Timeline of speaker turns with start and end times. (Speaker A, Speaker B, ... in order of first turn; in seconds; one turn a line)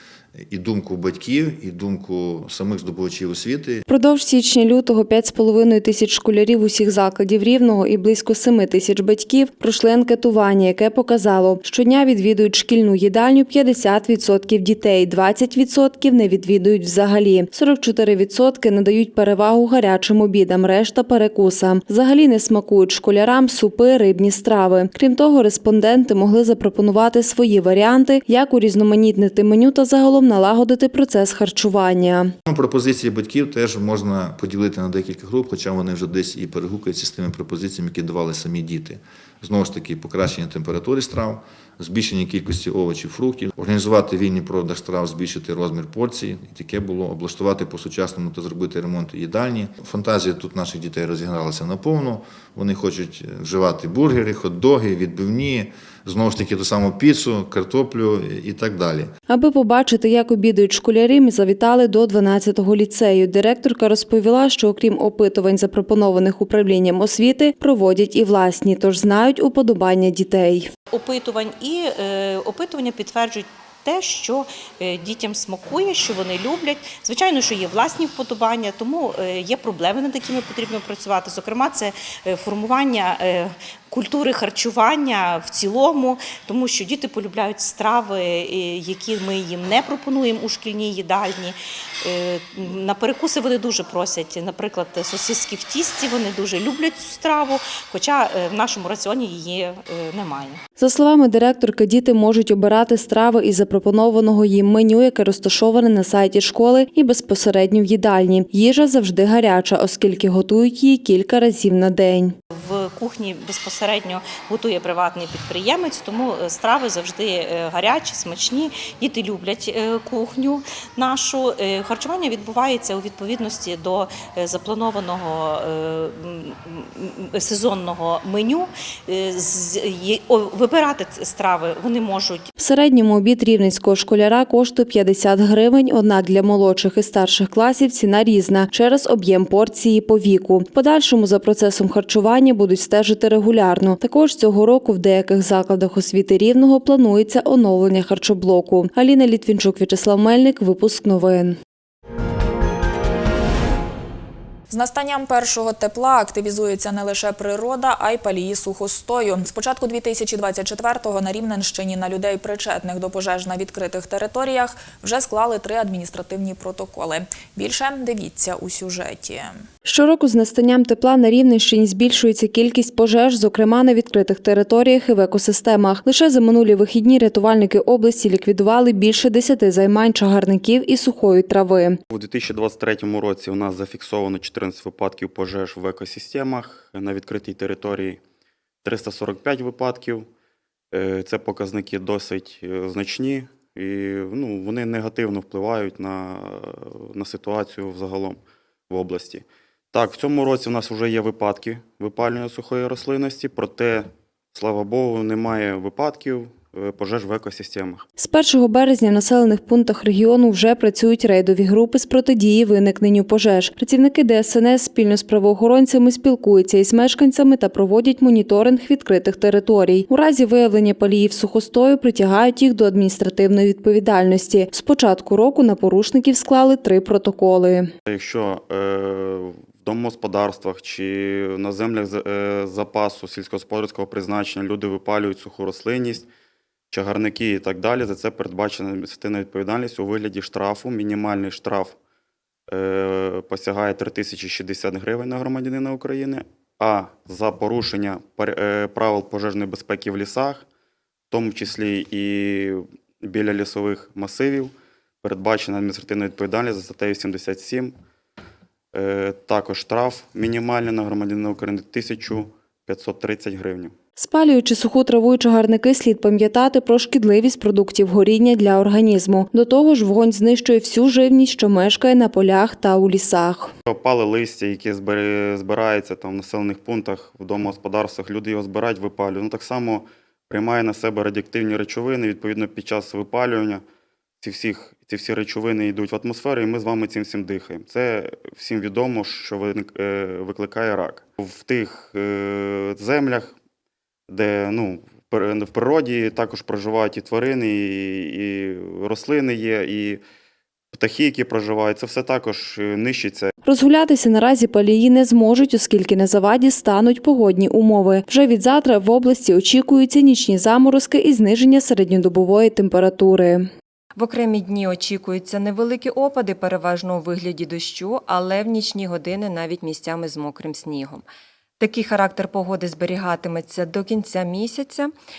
Speaker A: 0.3-3.8
Speaker B: 3.9-32.3
Speaker A: 32.5-59.1
Speaker B: 59.3-70.7
Speaker C: 70.9-100.6
Speaker B: 100.8-112.3
Speaker C: 112.5-132.5
Speaker B: 132.6-151.6
Speaker D: 154.7-169.6
Speaker B: 169.8-182.0
Speaker E: 182.1-188.2
Speaker E: 188.8-190.3
Speaker E: 190.9-208.1
Speaker B: 208.2-227.9
Speaker E: 228.1-236.3
Speaker E: 236.9-241.9
Speaker E: 242.7-250.6
Speaker E: 251.3-257.9
Speaker E: 258.9-263.9
Speaker B: 264.1-273.7
Speaker E: 273.9-283.8
Speaker E: 284.4-293.5
Speaker E: 294.3-300.2
Speaker E: 300.9-303.5
Speaker B: 303.6-313.7
Speaker F: 314.1-321.2
Speaker F: 321.8-325.1